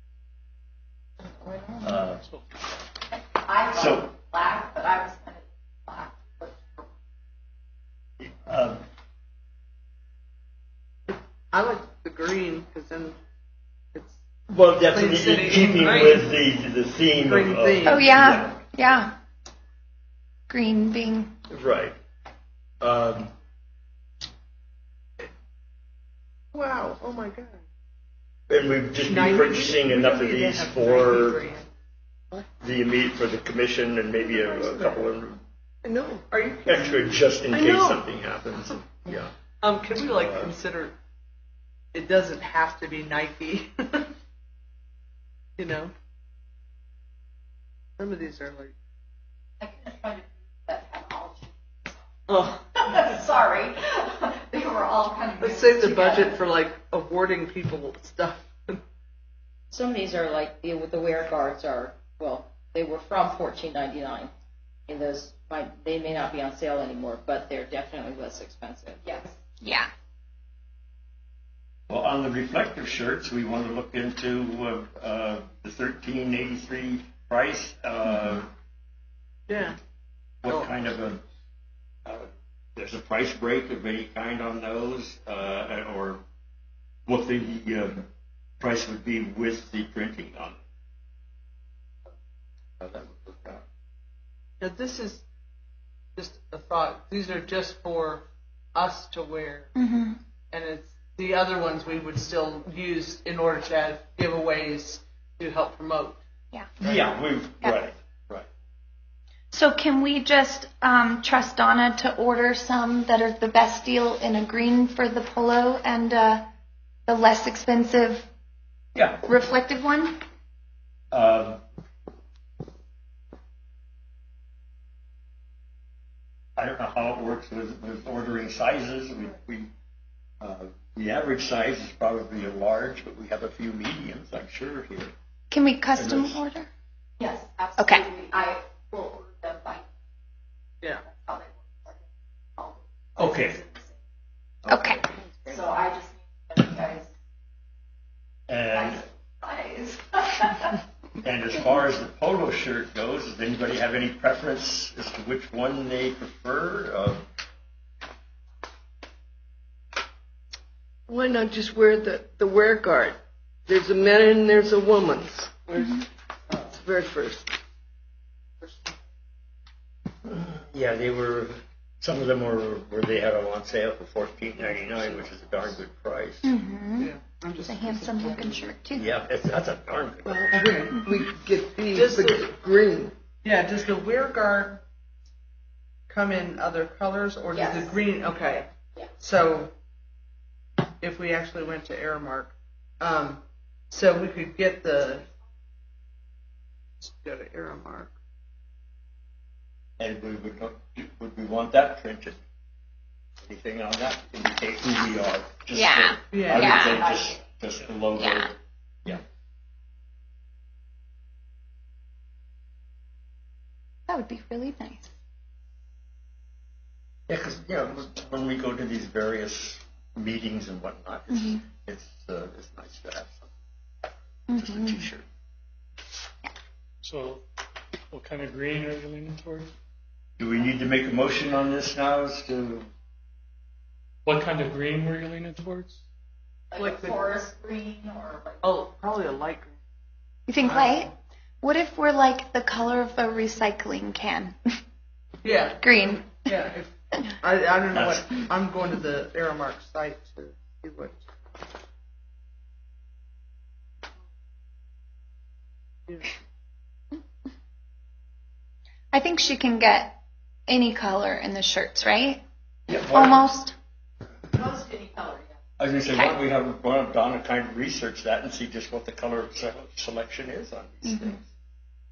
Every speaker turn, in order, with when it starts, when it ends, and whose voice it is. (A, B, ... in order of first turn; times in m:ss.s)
0:01.8-0:02.2 A
0:03.3-0:06.9 B
0:03.7-0:04.1 A
0:08.2-0:08.8 A
0:11.1-0:13.2 C
0:14.5-0:18.6 A
0:14.9-0:16.3 C
0:17.2-0:18.0 C
0:17.8-0:19.1 D
0:20.5-0:21.3 D
0:21.5-0:22.0 A
0:22.8-0:23.3 A
0:26.5-0:27.6 C
0:28.5-0:31.4 A
0:29.0-0:31.7 C
0:32.6-0:35.4 A
0:34.2-0:35.1 C
0:35.8-0:36.2 E
0:36.3-0:37.2 C
0:36.6-0:39.3 A
0:37.5-0:38.0 E
0:39.6-0:40.9 C
0:40.0-0:40.5 A
0:41.9-0:44.1 C
0:45.6-0:45.9 C
0:48.0-0:48.7 C
0:49.6-0:52.0 B
0:52.3-0:52.6 C
0:52.7-0:56.4 B
0:55.4-0:58.8 C
0:59.7-1:04.3 F
1:04.9-1:09.0 F
1:09.0-1:09.4 B
1:09.6-1:09.9 D
1:11.9-1:18.5 A
1:19.5-1:19.8 C
1:20.4-1:21.2 A
1:22.0-1:26.2 A
1:27.1-1:28.1 A
1:28.6-1:30.6 A
1:32.8-1:33.6 A
1:34.6-1:35.2 C
1:36.2-1:39.7 C
1:39.8-1:40.2 D
1:40.5-1:46.2 C
1:46.5-1:46.8 D
1:46.8-1:48.5 A
1:49.5-1:56.4 D
1:57.1-1:58.3 D
1:58.9-1:59.2 A
1:59.2-2:00.2 D
2:01.1-2:01.6 A
2:06.6-2:09.7 A
2:10.4-2:15.1 A
2:15.5-2:16.7 D
2:16.0-2:16.4 A
2:17.2-2:19.9 B
2:17.8-2:18.0 D
2:21.0-2:22.0 B
2:22.6-2:24.0 B
2:23.2-2:23.6 A
2:24.6-2:25.0 A
2:24.7-2:25.0 D
2:25.1-2:25.6 F
2:25.4-2:27.1 B
2:28.5-2:29.0 A
2:28.7-2:30.8 B
2:31.2-2:37.2 A
2:41.1-2:47.6 E
2:50.2-2:56.5 A
2:56.4-2:59.1 D
2:57.0-2:58.6 C
2:58.9-3:00.9 A
3:00.2-3:03.1 E
3:00.6-3:00.9 C
3:01.9-3:02.5 C
3:03.4-3:04.8 C
3:06.1-3:09.7 C
3:07.5-3:08.0 B
3:11.0-3:15.2 C
3:17.0-3:18.1 C
3:20.0-3:22.4 A
3:23.4-3:28.5 A
3:25.7-3:27.0 D
3:26.3-3:26.7 C
3:26.6-3:27.3 B
3:28.2-3:28.5 D
3:34.1-3:35.1 D
3:37.3-3:43.4 A
3:41.3-3:41.6 D
3:44.5-3:45.1 D
3:44.6-3:45.2 A
3:47.0-3:47.4 G
3:48.1-3:49.7 G
3:50.4-3:52.9 A
3:54.2-3:56.0 G
3:56.7-3:58.7 B
3:56.8-3:57.2 C
3:58.6-3:59.8 C
4:00.5-4:04.6 D
4:00.6-4:01.0 C
4:05.4-4:11.2 C
4:05.8-4:06.5 D
4:07.9-4:08.3 A
4:19.1-4:22.4 D
4:22.9-4:23.4 A
4:23.0-4:23.7 D
4:24.5-4:25.6 B
4:25.8-4:31.4 A
4:31.0-4:31.4 D